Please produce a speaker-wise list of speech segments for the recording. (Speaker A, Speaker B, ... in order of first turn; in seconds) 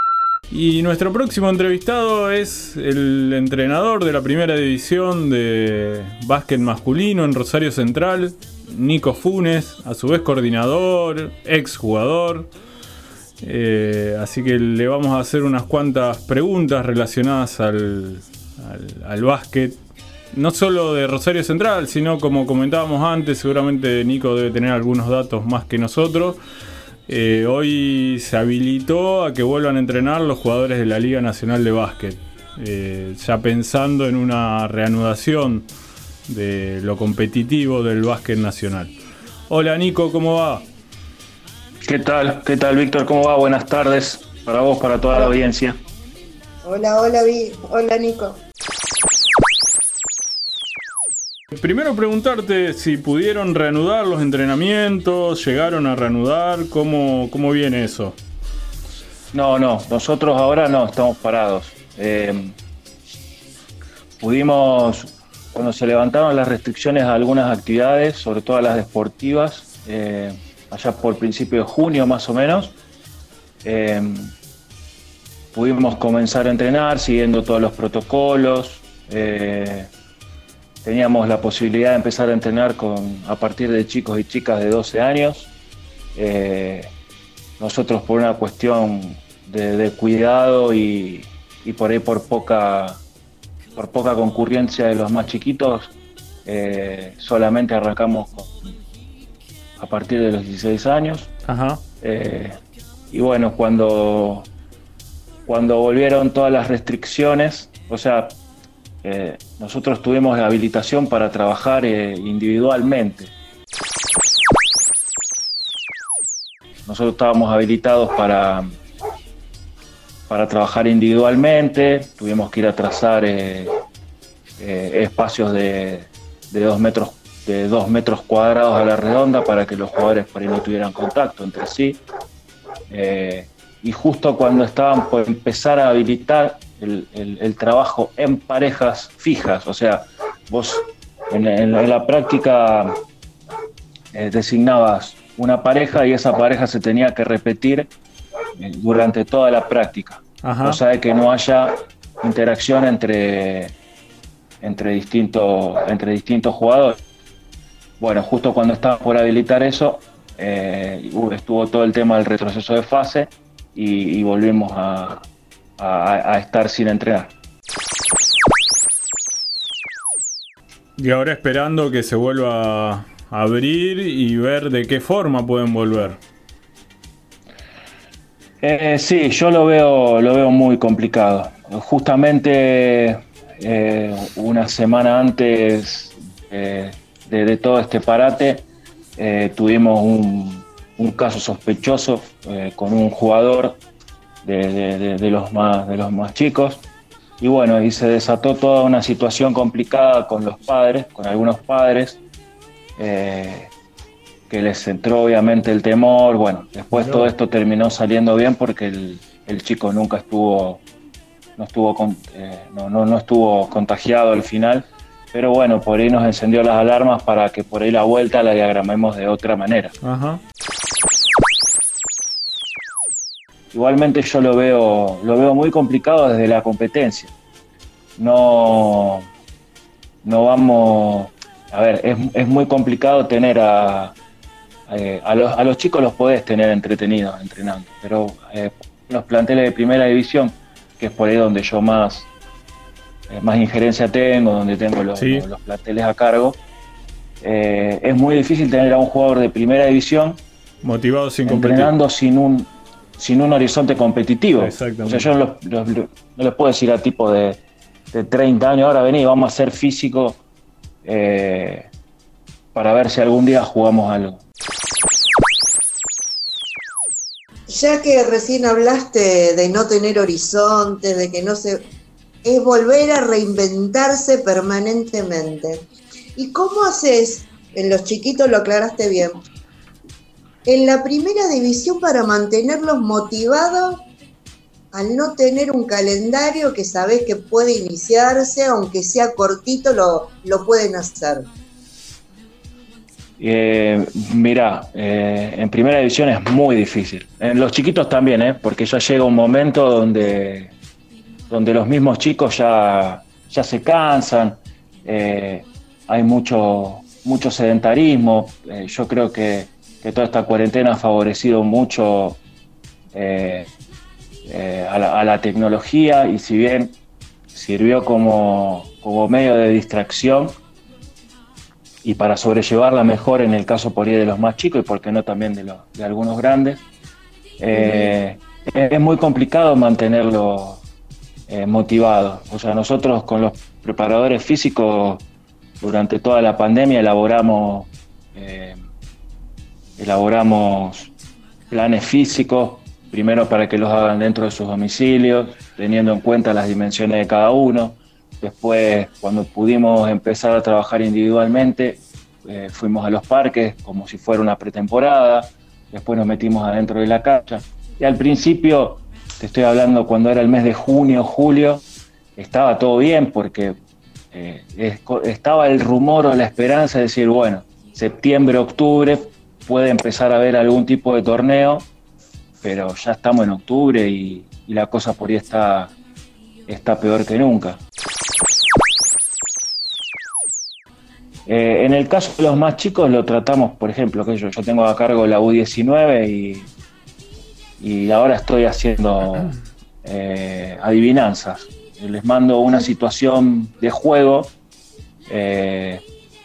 Speaker A: 0.5-12.5, 13.4-19.8, 20.3-26.4, 27.1-35.7, 36.3-38.9, 39.5-40.6, 51.5-58.2, 101.5-101.8, 150.4-150.8, 171.0-176.2, 206.9-207.3, 220.0-220.4, 245.2-245.4, 250.8-251.9, 254.6-255.3
Speaker B: 41.8-45.8, 59.3-62.6, 64.2-72.8, 73.6-74.3, 75.5-79.9, 80.8-85.5, 86.1-86.9, 87.6-93.0, 93.8-95.9, 96.4-98.5, 99.8-101.3, 102.0-102.6, 103.1-104.5, 105.5-108.4, 109.0-113.3, 116.8-118.8, 120.3-123.7, 124.6-132.0, 132.9-143.0, 144.1-147.9, 148.6-153.7, 154.6-157.0, 158.0-165.3, 165.8-167.3, 178.6-193.8, 194.4-196.8, 197.4-202.2, 203.0-203.7, 204.5-210.8, 211.6-219.9, 223.7-227.3, 228.2-229.3, 230.2-234.2, 234.9-242.3, 243.3-246.6, 247.4-250.4, 251.4-257.6, 258.1-260.4, 261.0-261.9, 262.7-264.4, 293.4-300.7, 301.5-312.4, 313.1-313.7, 314.4-317.0, 317.5-320.6, 322.0-326.8, 327.6-330.8, 331.5-335.2, 335.8-338.8, 340.0-341.1, 341.7-361.8, 362.4-363.8, 364.3-371.9, 372.6-375.9, 376.7-377.8, 381.5-386.7, 387.8-394.5, 395.3-396.0
Speaker C: 46.6-48.4, 267.7-271.8, 272.4-279.4, 280.6-284.0, 284.9-291.5, 327.7-328.1